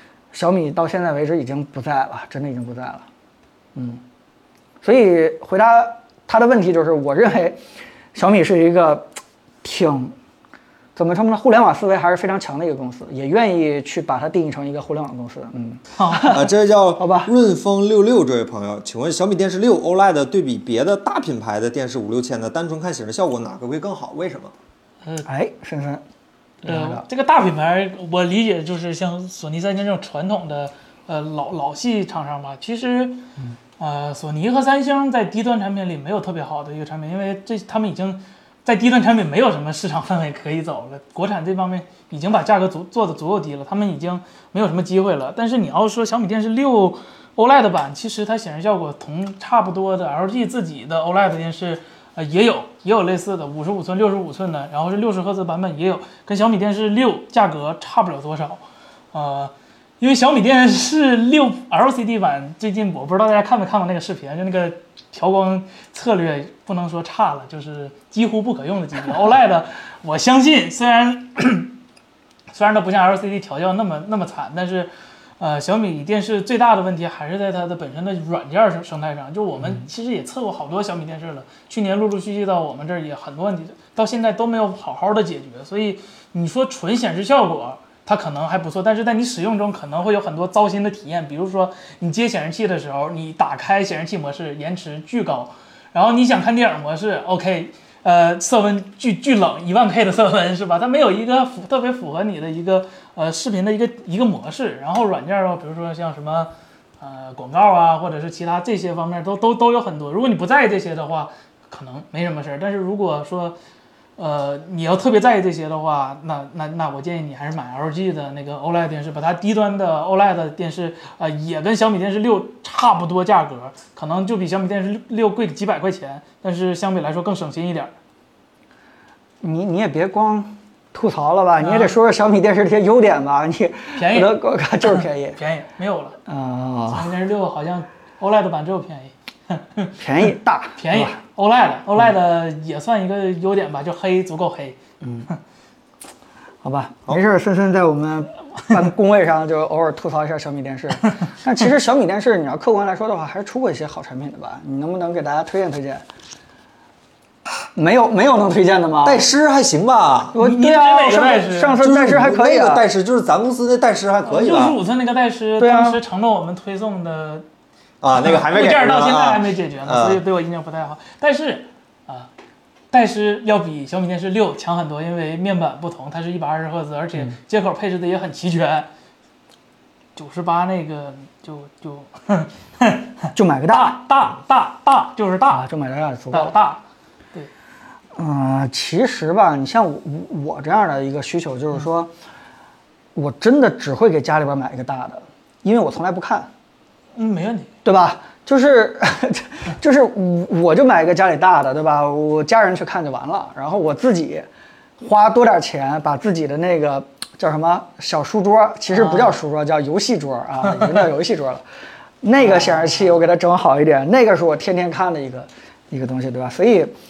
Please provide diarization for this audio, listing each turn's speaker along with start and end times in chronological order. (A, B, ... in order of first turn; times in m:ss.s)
0:00.3-0:03.0 A
0:03.7-0:04.0 A
0:04.8-0:07.6 A
0:08.1-0:09.1 A
0:09.6-0:10.1 A
0:11.0-0:16.4 A
0:16.0-0:16.3 B
0:16.3-0:24.5 C
0:17.0-0:17.3 A
0:25.2-0:26.0 A
0:26.6-0:27.0 A
0:26.7-0:33.2 B
0:33.8-0:58.6 B
0:59.1-1:11.7 B
1:12.5-1:53.6 B
1:54.2-2:07.9 B
2:09.4-2:15.4 A
2:11.6-2:11.9 B
2:14.0-2:14.3 B
2:14.8-2:16.2 B
2:16.3-2:17.1 A
2:16.9-2:19.9 B
2:20.0-2:21.2 A
2:20.8-2:24.8 B
2:25.0-2:25.3 A
2:26.6-2:36.0 A
2:37.7-2:39.2 A
2:39.0-2:40.3 C
2:40.3-2:42.8 A
2:40.4-2:41.8 B
2:41.8-2:44.8 C
2:44.2-2:47.4 B
2:45.6-2:46.0 A
2:48.0-2:50.2 C
2:48.2-2:52.3 B
2:52.9-2:58.9 B
3:00.2-3:05.6 B
3:03.3-3:04.0 A
3:05.5-3:06.5 A
3:06.3-3:06.8 B
3:08.2-3:12.1 A
3:13.1-3:16.5 A
3:17.2-3:17.7 B
3:17.8-3:24.4 A
3:25.0-3:31.6 A
3:28.9-3:29.3 B
3:32.2-3:36.9 A
3:32.5-3:32.9 B